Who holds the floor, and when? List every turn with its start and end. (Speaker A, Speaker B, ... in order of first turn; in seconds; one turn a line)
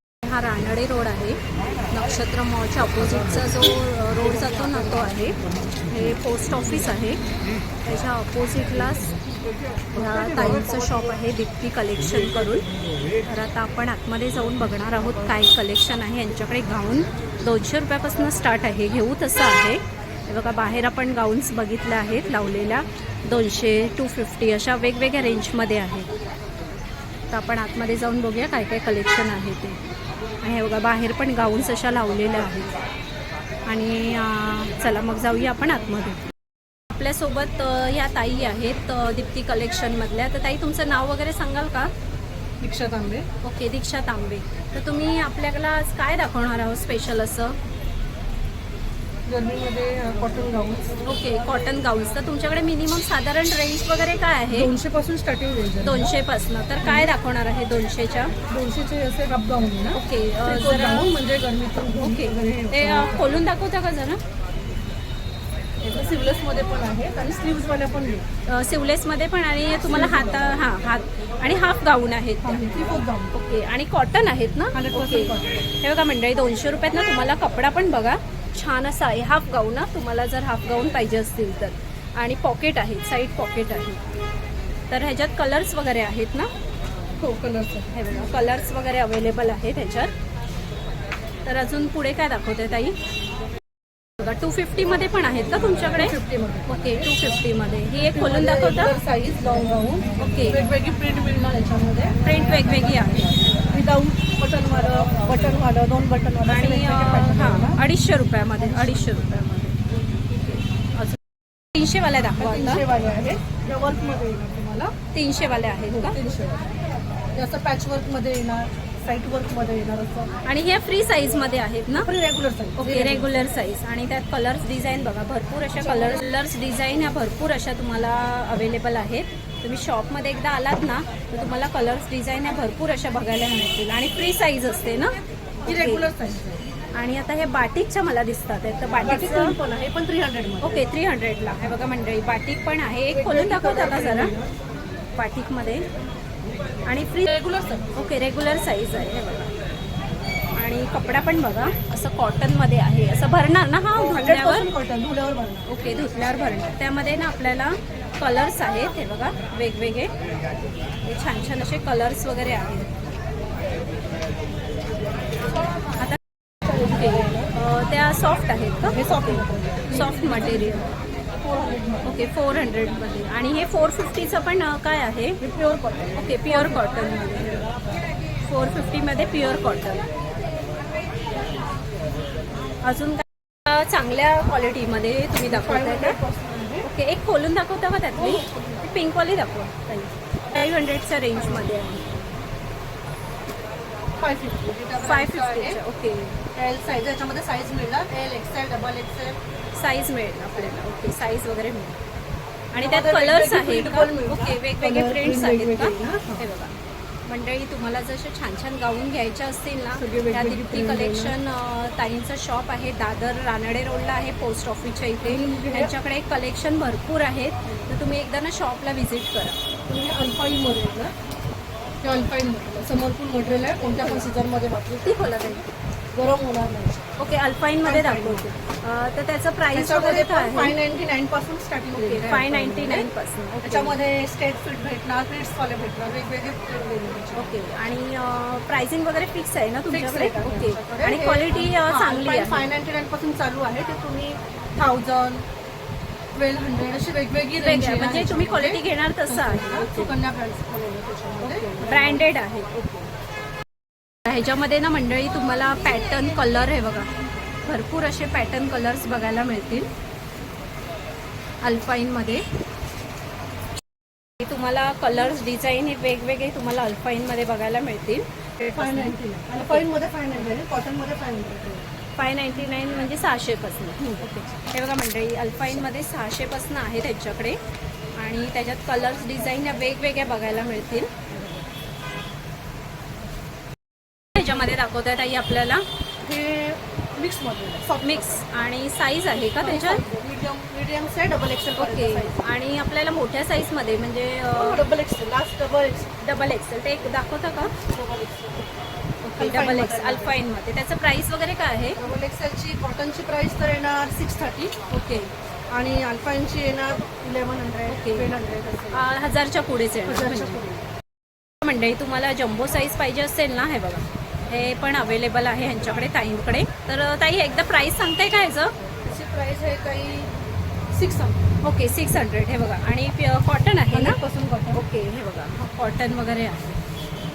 Speaker A: 0.2-1.4
Speaker A: 1.9-7.2
Speaker A: 7.8-9.1
Speaker A: 9.9-12.7
Speaker A: 13.2-26.1
Speaker A: 27.3-29.8
Speaker A: 30.4-32.8
Speaker A: 33.6-36.2
Speaker A: 36.9-41.9
Speaker B: 42.6-43.2
Speaker A: 43.4-47.6
Speaker B: 49.2-50.9
Speaker A: 51.0-54.7
Speaker B: 54.5-56.1
Speaker A: 55.8-58.3
Speaker B: 56.8-57.1
Speaker B: 58.5-63.3
Speaker A: 59.9-61.1
Speaker A: 61.9-64.2
Speaker B: 65.8-68.2
Speaker A: 68.5-84.0
Speaker B: 69.8-70.3
Speaker B: 72.4-73.3
Speaker B: 74.7-75.6
Speaker A: 84.9-86.5
Speaker B: 87.2-87.9
Speaker A: 87.9-90.1
Speaker A: 91.4-93.0
Speaker A: 94.2-98.9
Speaker B: 95.8-97.1
Speaker B: 98.1-102.3
Speaker A: 100.2-100.6
Speaker A: 102.2-103.6
Speaker B: 103.7-107.8
Speaker A: 106.5-111.2
Speaker A: 111.7-112.8
Speaker B: 112.3-114.9
Speaker A: 115.1-116.2
Speaker B: 115.9-116.7
Speaker B: 117.3-120.3
Speaker A: 120.4-122.1
Speaker B: 121.9-123.3
Speaker A: 122.8-135.1
Speaker B: 125.8-126.2
Speaker A: 135.6-136.1
Speaker B: 135.7-136.6
Speaker A: 136.9-139.5
Speaker B: 139.0-140.9
Speaker A: 140.6-144.3
Speaker B: 143.1-144.5
Speaker A: 145.2-145.8
Speaker A: 146.8-147.3
Speaker B: 147.3-147.9
Speaker A: 147.9-149.5
Speaker A: 150.6-154.7
Speaker B: 153.9-155.7
Speaker A: 155.7-160.1
Speaker A: 161.1-162.9
Speaker B: 166.7-167.5
Speaker A: 166.9-170.9
Speaker B: 168.8-172.2
Speaker A: 172.0-175.4
Speaker B: 175.4-176.9
Speaker A: 176.2-177.7
Speaker A: 178.4-180.1
Speaker A: 182.8-186.2
Speaker B: 185.4-186.9
Speaker A: 186.8-192.2
Speaker B: 188.1-188.8
Speaker B: 194.2-195.8
Speaker A: 195.0-196.4
Speaker B: 196.5-199.4
Speaker A: 199.7-202.0
Speaker A: 202.7-219.6
Speaker B: 202.7-206.4
Speaker B: 209.9-211.3
Speaker B: 215.2-215.9
Speaker B: 219.9-221.1
Speaker B: 222.0-225.3
Speaker A: 224.0-224.3
Speaker A: 225.0-225.6
Speaker B: 226.1-227.1
Speaker A: 227.2-230.7
Speaker B: 227.8-228.5
Speaker B: 229.7-233.1
Speaker A: 231.9-234.0
Speaker B: 233.6-237.6
Speaker A: 237.3-242.7
Speaker B: 239.9-245.4
Speaker B: 246.3-252.2
Speaker A: 247.6-250.1
Speaker A: 251.4-253.0
Speaker A: 254.2-257.1
Speaker A: 257.6-259.9
Speaker A: 261.6-262.4
Speaker A: 264.4-269.1
Speaker B: 268.7-271.9
Speaker A: 272.2-277.6
Speaker B: 274.2-274.6
Speaker A: 278.2-281.3
Speaker A: 284.3-285.8
Speaker B: 286.2-288.4
Speaker A: 288.0-290.0
Speaker B: 289.3-292.5
Speaker A: 291.8-294.8
Speaker B: 294.5-296.1
Speaker A: 296.2-297.7
Speaker B: 297.7-298.7
Speaker A: 299.2-302.0
Speaker B: 299.4-300.4
Speaker B: 301.9-304.9
Speaker A: 304.9-305.3
Speaker B: 305.7-309.1
Speaker A: 307.9-308.3
Speaker A: 308.9-310.6
Speaker B: 310.1-310.9
Speaker A: 311.6-318.7
Speaker B: 319.0-320.3
Speaker B: 320.9-321.4
Speaker A: 321.6-324.2
Speaker B: 323.9-324.8
Speaker A: 324.7-326.8